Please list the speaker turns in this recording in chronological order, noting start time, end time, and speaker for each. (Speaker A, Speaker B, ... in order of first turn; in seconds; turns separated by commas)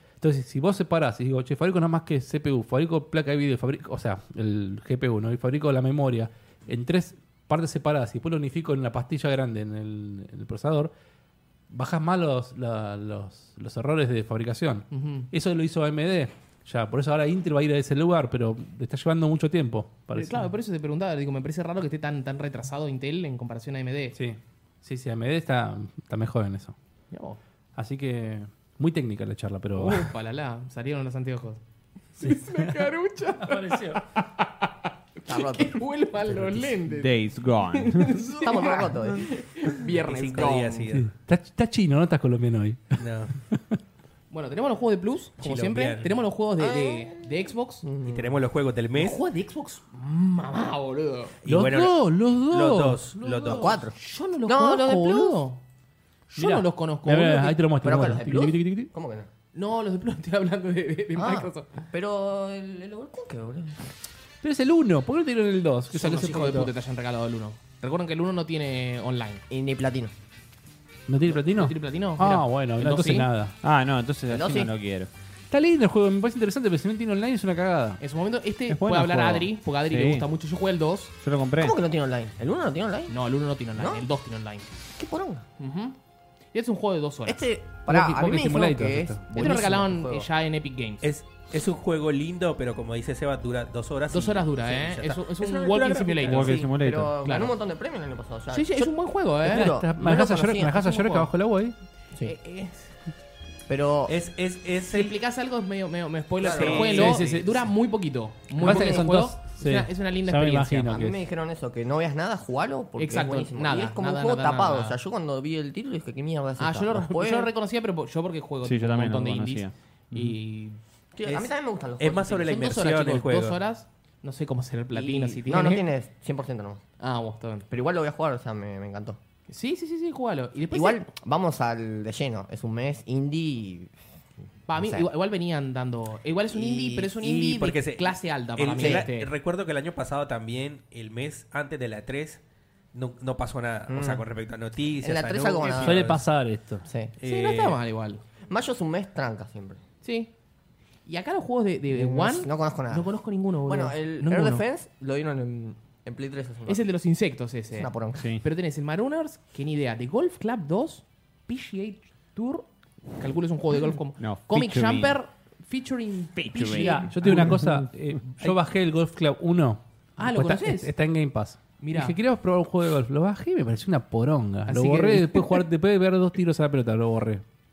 Speaker A: 0.2-10.9, Speaker A: 11.7-20.5, Speaker B: 14.9-15.3, Speaker B: 20.1-24.2, Speaker A: 24.1-26.8, Speaker B: 27.1-27.4, Speaker A: 27.8-30.1, Speaker B: 29.8-31.6, Speaker B: 32.2-40.9, Speaker A: 32.2-32.9, Speaker A: 33.4-34.0, Speaker C: 35.3-35.9, Speaker D: 36.9-38.2, Speaker C: 38.4-39.3, Speaker E: 40.0-41.1, Speaker A: 40.9-43.8, Speaker E: 43.0-43.3, Speaker B: 44.3-47.9, Speaker E: 45.4-46.1, Speaker C: 46.6-47.3, Speaker C: 47.8-48.4, Speaker E: 48.0-49.2, Speaker B: 49.0-51.4, Speaker E: 51.4-53.8, Speaker A: 51.5-53.6, Speaker B: 53.2-55.6, Speaker C: 53.5-55.4, Speaker B: 56.3-57.6, Speaker A: 56.4-58.9, Speaker C: 57.8-59.3, Speaker B: 59.5-61.7, Speaker C: 61.1-63.8, Speaker A: 64.4-66.7, Speaker B: 65.9-69.5, Speaker C: 69.5-70.1, Speaker A: 71.1-73.5, Speaker B: 71.3-73.3, Speaker D: 73.6-75.1, Speaker C: 74.3-74.7, Speaker A: 75.5-78.0, Speaker B: 78.0-81.1, Speaker D: 78.7-80.3, Speaker D: 81.2-81.8, Speaker C: 81.6-83.1, Speaker B: 83.1-84.7, Speaker C: 83.8-84.1, Speaker C: 85.0-85.5, Speaker B: 85.6-86.0, Speaker B: 86.5-87.4, Speaker C: 87.3-90.3, Speaker A: 87.9-89.2, Speaker B: 89.3-91.0, Speaker E: 91.0-94.5, Speaker B: 94.1-97.5, Speaker C: 94.7-100.8, Speaker E: 96.0-96.5, Speaker D: 96.2-97.2, Speaker B: 98.5-99.7, Speaker A: 99.5-101.8, Speaker B: 100.7-101.3, Speaker B: 102.2-102.9, Speaker C: 103.7-104.2, Speaker E: 104.1-105.2, Speaker B: 104.9-111.0, Speaker C: 106.4-107.2, Speaker E: 106.4-107.4, Speaker A: 106.9-107.6, Speaker C: 108.6-109.0, Speaker A: 108.6-111.2, Speaker C: 110.9-117.5, Speaker B: 113.0-115.0, Speaker B: 116.6-120.8, Speaker D: 118.6-120.4, Speaker C: 121.2-122.7, Speaker E: 121.2-123.6, Speaker B: 122.5-125.9, Speaker C: 124.9-126.8, Speaker B: 127.0-127.7, Speaker C: 127.7-129.2, Speaker B: 129.5-131.1, Speaker C: 130.7-133.9, Speaker B: 134.7-139.3, Speaker C: 134.8-135.1, Speaker C: 136.5-137.1, Speaker E: 137.2-142.4, Speaker C: 138.7-139.1, Speaker E: 142.9-146.2, Speaker C: 143.9-144.3, Speaker C: 145.0-146.1, Speaker A: 145.8-146.8, Speaker C: 146.8-147.1, Speaker E: 147.2-147.8, Speaker B: 147.2-148.2, Speaker C: 148.5-149.8, Speaker B: 150.0-150.3, Speaker B: 151.1-154.7, Speaker C: 151.9-153.1, Speaker C: 153.7-156.8, Speaker B: 156.7-162.7, Speaker C: 157.7-158.3, Speaker B: 163.2-167.6, Speaker D: 164.2-165.2, Speaker D: 166.5-167.9, Speaker A: 166.7-177.4, Speaker B: 170.2-170.9, Speaker B: 171.8-172.2, Speaker B: 174.7-175.6